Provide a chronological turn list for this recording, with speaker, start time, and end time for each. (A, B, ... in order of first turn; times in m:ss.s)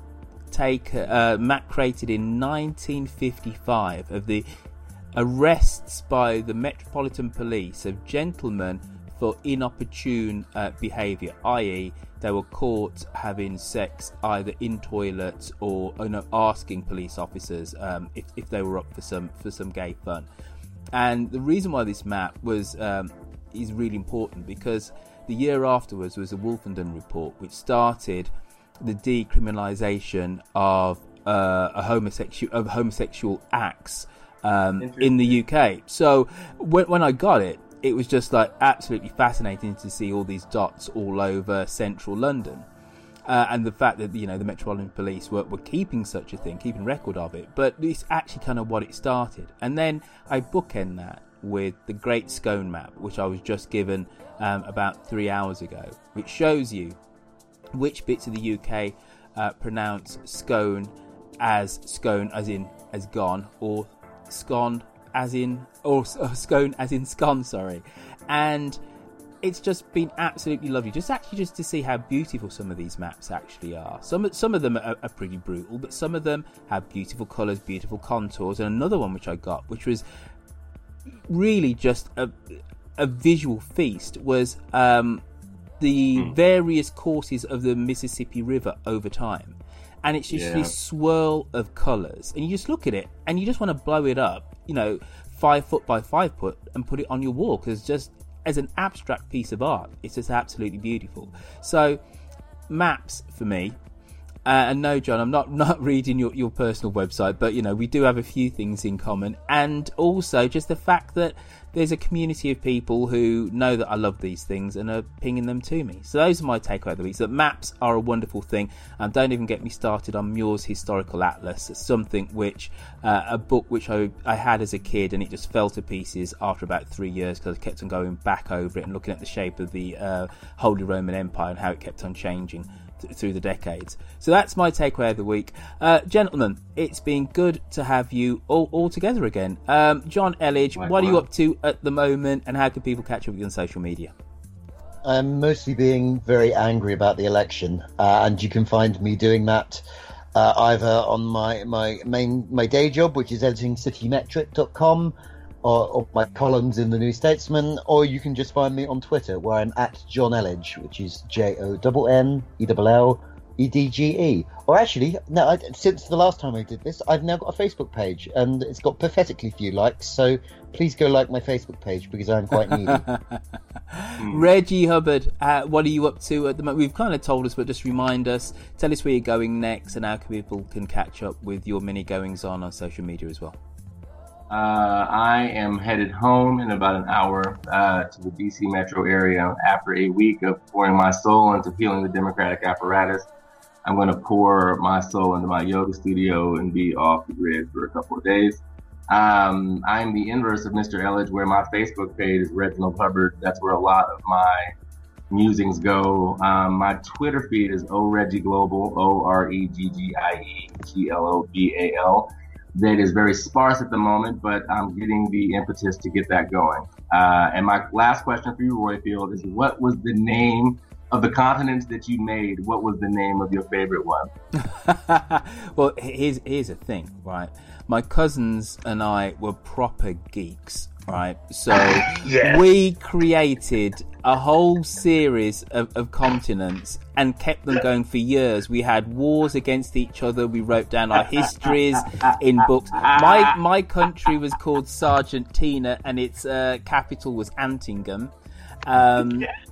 0:00.5-0:04.4 A
0:05.1-0:20.3 A
0:20.9-0:42.6 A
0:34.8-0:35.4 B
0:43.2-0:57.0 A
0:57.7-1:08.8 A
1:09.4-1:20.0 A
1:21.3-1:25.2 A
1:25.8-1:42.0 A
1:30.3-1:30.7 B
1:42.7-1:43.8 A
1:44.4-2:24.1 A
2:20.8-2:21.2 B
2:25.0-2:29.8 C
2:30.3-2:53.0 C
2:52.5-3:03.6 A
2:54.2-2:54.5 B
3:04.5-3:13.3 B
3:13.8-3:24.7 B
3:25.3-3:44.3 B
3:44.6-4:08.3 A
3:51.7-3:52.7 B
4:03.0-4:03.5 B
4:08.8-4:09.5 A
4:09.2-4:09.5 B